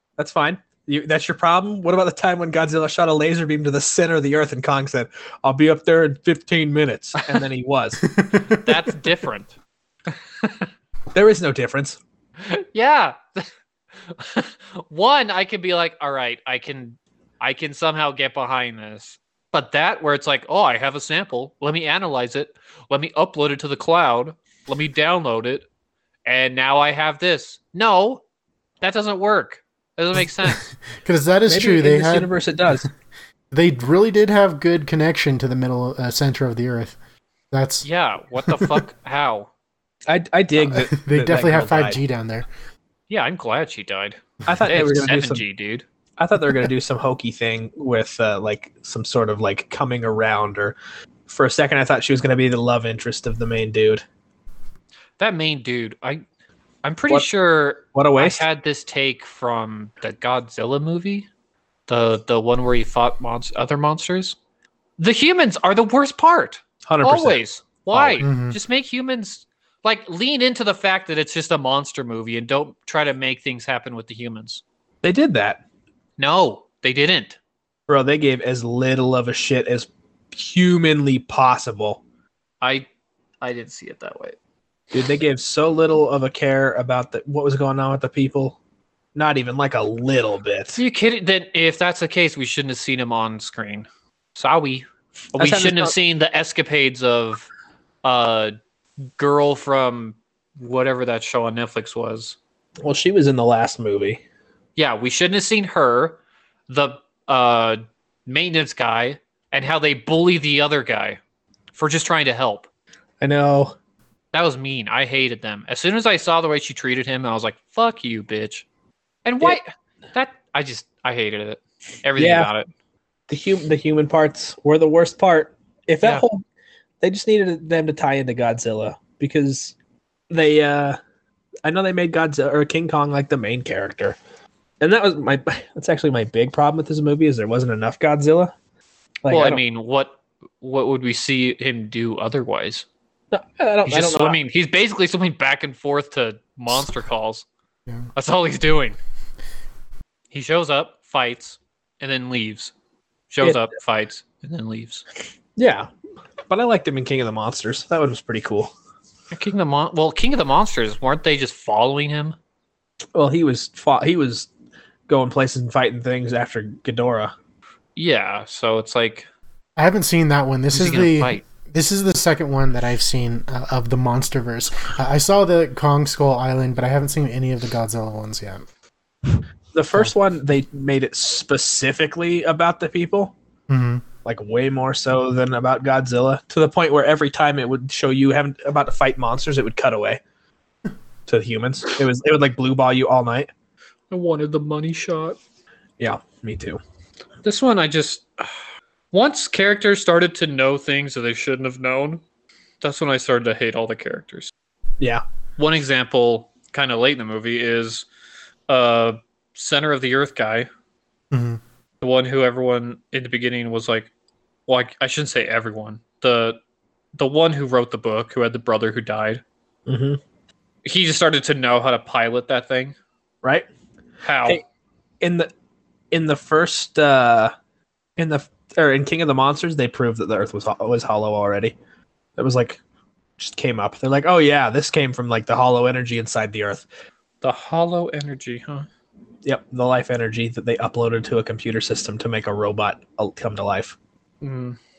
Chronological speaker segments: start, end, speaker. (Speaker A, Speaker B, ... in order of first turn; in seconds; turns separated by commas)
Speaker A: 0.2-8.1, Speaker B: 8.1-8.7, Speaker C: 8.5-9.5, Speaker A: 11.1-12.0, Speaker C: 12.4-13.5, Speaker C: 14.0-25.6, Speaker C: 26.2-28.2, Speaker C: 28.8-30.7, Speaker B: 30.4-32.3, Speaker A: 31.5-32.9, Speaker B: 33.5-37.0, Speaker B: 37.5-37.9, Speaker C: 37.8-39.5, Speaker B: 38.4-38.8, Speaker A: 40.1-42.0, Speaker B: 40.6-42.5, Speaker C: 43.1-45.8, Speaker A: 44.5-45.4, Speaker A: 46.2-50.8, Speaker A: 51.3-54.0, Speaker C: 55.2-56.2, Speaker C: 56.8-61.3, Speaker A: 57.9-58.4, Speaker C: 61.9-64.3, Speaker C: 65.0-74.6, Speaker A: 66.8-67.4, Speaker A: 67.9-68.2, Speaker B: 68.2-68.6, Speaker A: 75.0-75.6, Speaker C: 76.2-77.4, Speaker A: 77.9-82.0, Speaker C: 82.6-82.9, Speaker C: 83.4-84.3, Speaker A: 84.9-88.6, Speaker A: 89.1-90.8, Speaker C: 90.7-97.5, Speaker A: 95.3-95.9, Speaker C: 98.0-98.5, Speaker C: 99.2-102.4, Speaker A: 102.8-104.2, Speaker C: 104.8-111.2, Speaker C: 111.7-112.7, Speaker A: 113.2-113.7, Speaker C: 114.3-118.7, Speaker C: 119.2-122.7, Speaker A: 122.2-122.5, Speaker A: 123.3-126.4, Speaker A: 127.0-129.7, Speaker A: 130.3-131.0, Speaker A: 131.6-134.2, Speaker A: 134.8-138.5, Speaker A: 139.2-139.6, Speaker C: 139.3-142.8, Speaker A: 143.3-144.4, Speaker C: 143.8-147.4, Speaker C: 148.1-149.0, Speaker C: 150.3-152.7, Speaker C: 153.3-155.0, Speaker A: 155.6-155.9, Speaker A: 156.5-158.7, Speaker C: 159.3-162.3, Speaker A: 163.1-164.5, Speaker A: 165.1-167.3, Speaker C: 167.9-169.3, Speaker B: 169.8-178.6, Speaker C: 170.7-171.4, Speaker A: 179.7-183.3, Speaker B: 183.7-184.0, Speaker A: 184.2-190.2, Speaker A: 191.3-193.5, Speaker C: 194.1-195.4, Speaker A: 196.0-196.8, Speaker C: 197.4-198.5, Speaker C: 199.1-202.2, Speaker C: 202.8-204.5, Speaker C: 205.6-208.1, Speaker C: 208.7-210.7, Speaker B: 211.3-211.6, Speaker C: 212.0-214.1, Speaker C: 214.7-216.6, Speaker C: 217.1-219.4, Speaker A: 219.9-220.2, Speaker C: 220.8-222.9, Speaker C: 224.2-224.6, Speaker A: 225.2-225.5, Speaker A: 226.1-227.5, Speaker A: 228.2-231.7, Speaker A: 232.4-232.8, Speaker A: 233.4-236.8, Speaker C: 237.4-238.9, Speaker A: 239.4-243.9, Speaker C: 244.4-244.8